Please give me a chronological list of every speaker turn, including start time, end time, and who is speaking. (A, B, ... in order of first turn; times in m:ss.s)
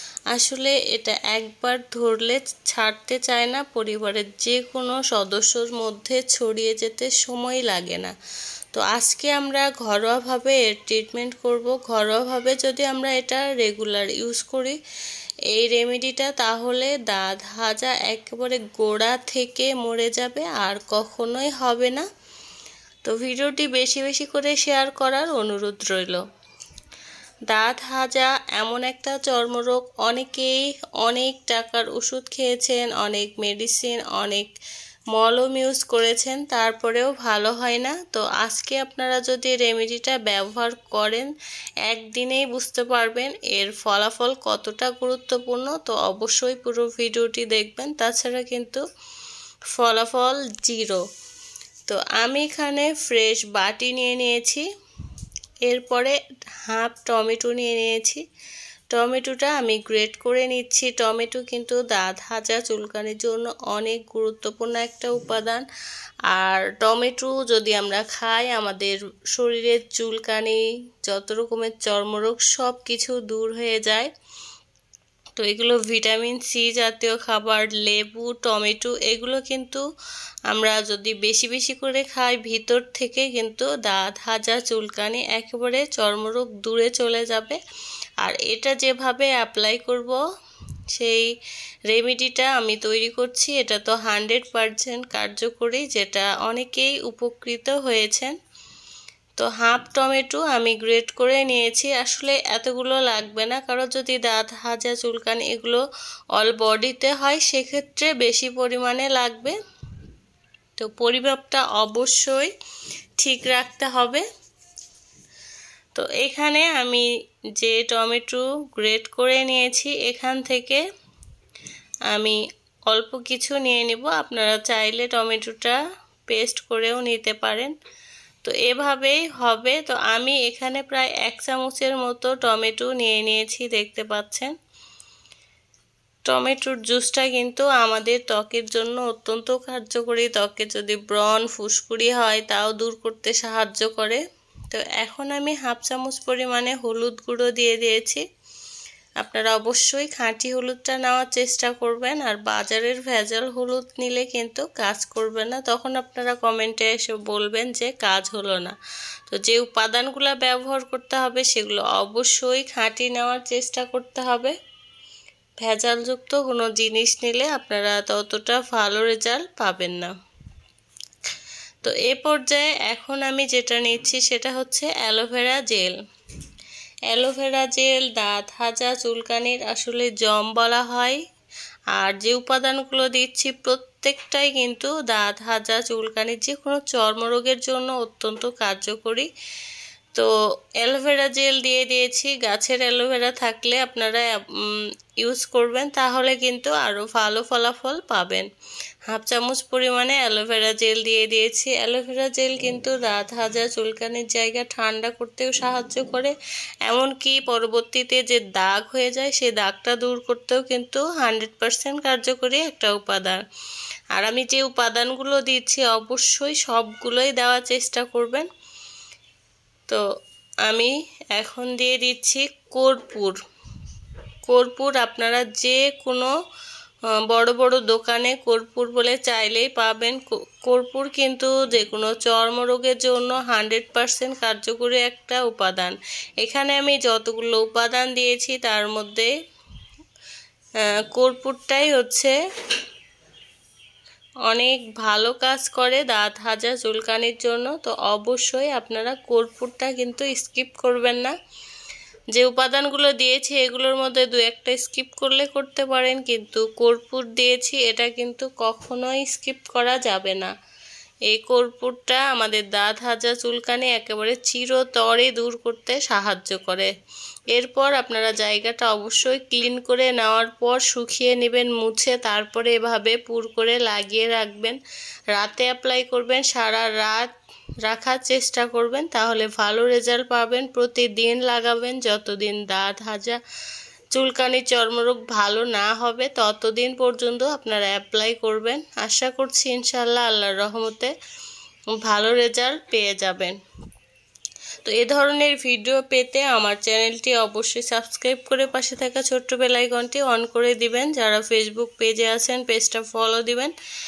0:00.3-0:08.1 A
0:08.7-0:14.8 A
0:15.5-0:22.1 A
0:23.0-0:26.2 A
0:27.5-0:34.5 A
0:35.1-0:41.3 A
0:41.8-0:48.8 A
0:49.7-0:51.0 A
0:51.9-0:54.6 A
0:55.6-0:58.2 A
0:58.9-1:05.6 A
1:06.3-1:14.1 A
1:15.4-1:19.8 A
1:20.5-1:27.6 A
1:28.2-1:30.2 A
1:30.9-1:31.3 A
1:31.9-1:38.3 A
1:39.4-1:45.8 A
1:46.3-1:49.6 A
1:50.8-1:52.5 A
1:53.2-1:54.2 A
1:55.9-1:57.0 A
1:57.6-2:00.8 A
2:02.1-2:07.7 A
2:08.4-2:14.5 A
2:16.3-2:28.2 A
2:29.2-2:38.7 A
2:39.3-2:44.5 A
2:45.6-2:50.1 A
2:51.8-2:56.0 A
2:57.1-3:01.2 A
3:01.9-3:09.3 A
3:10.1-3:18.5 A
3:19.1-3:26.3 A
3:26.8-3:33.4 A
3:34.1-3:38.5 A
3:40.6-3:43.4 A
3:44.5-3:46.3 A
3:47.3-3:59.3 A
4:01.1-4:02.4 A
4:04.5-4:11.3 A
4:12.3-4:20.5 A
4:21.3-4:26.9 A
4:27.5-4:34.8 A
4:35.3-4:37.3 A
4:37.8-4:43.4 A
4:44.1-4:51.1 A
4:52.0-4:53.6 A
4:54.8-5:03.7 A